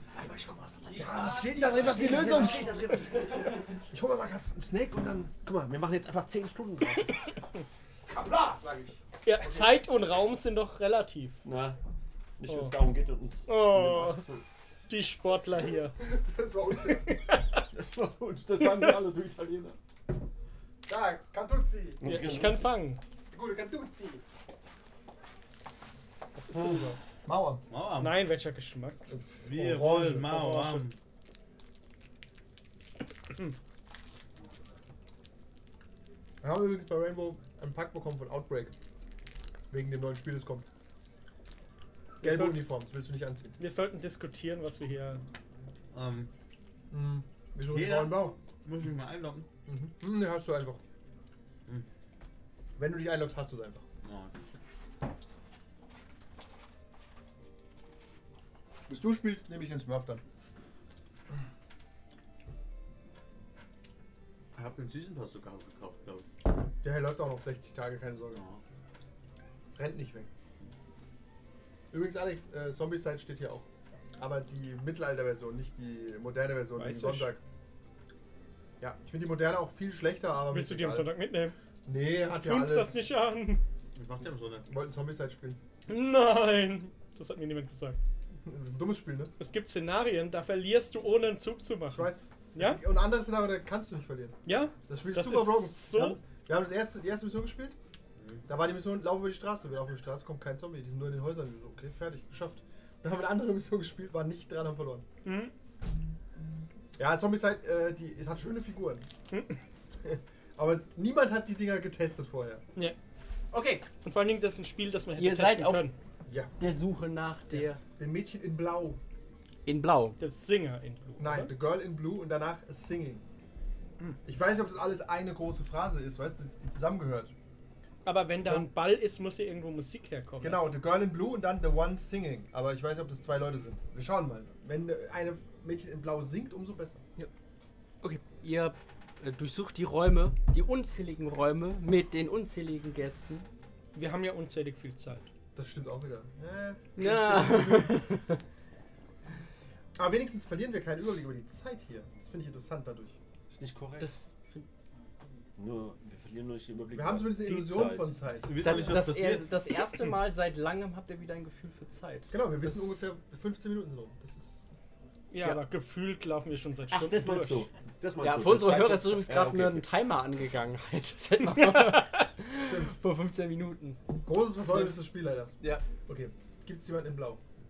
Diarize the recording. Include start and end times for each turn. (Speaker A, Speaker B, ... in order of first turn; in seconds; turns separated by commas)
Speaker A: 0.2-0.9, Speaker B: 0.8-3.8, Speaker C: 0.9-5.3, Speaker A: 5.3-7.2, Speaker C: 8.1-9.8, Speaker D: 9.2-11.4, Speaker A: 11.4-11.8, Speaker A: 12.4-14.4, Speaker D: 12.5-12.9, Speaker D: 13.4-14.3, Speaker D: 14.9-16.0, Speaker C: 16.0-17.1, Speaker D: 16.9-17.4, Speaker A: 17.7-19.8, Speaker D: 18.6-19.1, Speaker C: 20.9-22.0, Speaker A: 22.0-22.7, Speaker D: 22.0-23.0, Speaker C: 23.3-24.2, Speaker D: 26.4-27.0, Speaker A: 26.5-26.8, Speaker C: 27.2-27.6, Speaker E: 27.7-28.2, Speaker D: 27.9-29.0, Speaker C: 29.1-30.8, Speaker E: 29.4-30.9, Speaker C: 36.4-38.7, Speaker C: 39.7-40.7, Speaker D: 42.2-42.7, Speaker C: 42.2-43.6, Speaker D: 43.6-45.2, Speaker E: 45.9-46.3, Speaker C: 46.9-48.4, Speaker E: 47.7-49.5, Speaker C: 49.6-50.8, Speaker C: 52.8-53.8, Speaker E: 54.0-54.4, Speaker C: 58.9-60.2, Speaker E: 64.5-66.2, Speaker C: 66.8-68.4, Speaker E: 68.3-68.6, Speaker C: 69.7-70.3, Speaker C: 71.9-73.7, Speaker C: 74.2-77.4, Speaker D: 76.8-77.3, Speaker C: 78.8-81.1, Speaker D: 80.5-81.5, Speaker C: 81.8-83.0, Speaker D: 82.4-83.6, Speaker E: 84.0-84.7, Speaker C: 84.7-85.6, Speaker D: 85.9-88.0, Speaker C: 88.4-89.3, Speaker D: 89.4-92.8, Speaker C: 91.9-97.8, Speaker D: 94.5-96.2, Speaker E: 98.2-98.4, Speaker C: 98.5-105.0, Speaker D: 105.2-105.5, Speaker C: 107.0-109.1, Speaker D: 109.3-109.6, Speaker C: 110.0-112.6, Speaker B: 113.5-113.8, Speaker E: 113.5-113.8, Speaker D: 114.0-115.9, Speaker B: 115.2-115.9, Speaker B: 116.6-117.8, Speaker C: 117.5-119.0, Speaker B: 119.7-120.2, Speaker D: 120.2-121.5, Speaker C: 121.2-123.2, Speaker C: 124.2-127.3, Speaker D: 128.0-130.8, Speaker C: 128.4-128.7, Speaker C: 130.4-137.0, Speaker B: 138.0-143.5, Speaker D: 143.9-145.2, Speaker C: 145.5-148.0, Speaker B: 147.0-148.3, Speaker C: 149.9-153.2, Speaker A: 153.5-154.1, Speaker B: 154.0-154.7, Speaker A: 155.6-159.1, Speaker C: 156.9-158.5, Speaker E: 158.5-160.1, Speaker B: 158.6-162.8, Speaker C: 162.3-164.7, Speaker D: 165.3-167.7, Speaker A: 166.9-169.9, Speaker B: 168.2-174.0, Speaker D: 171.6-172.1, Speaker C: 172.7-172.9, Speaker C: 174.2-177.4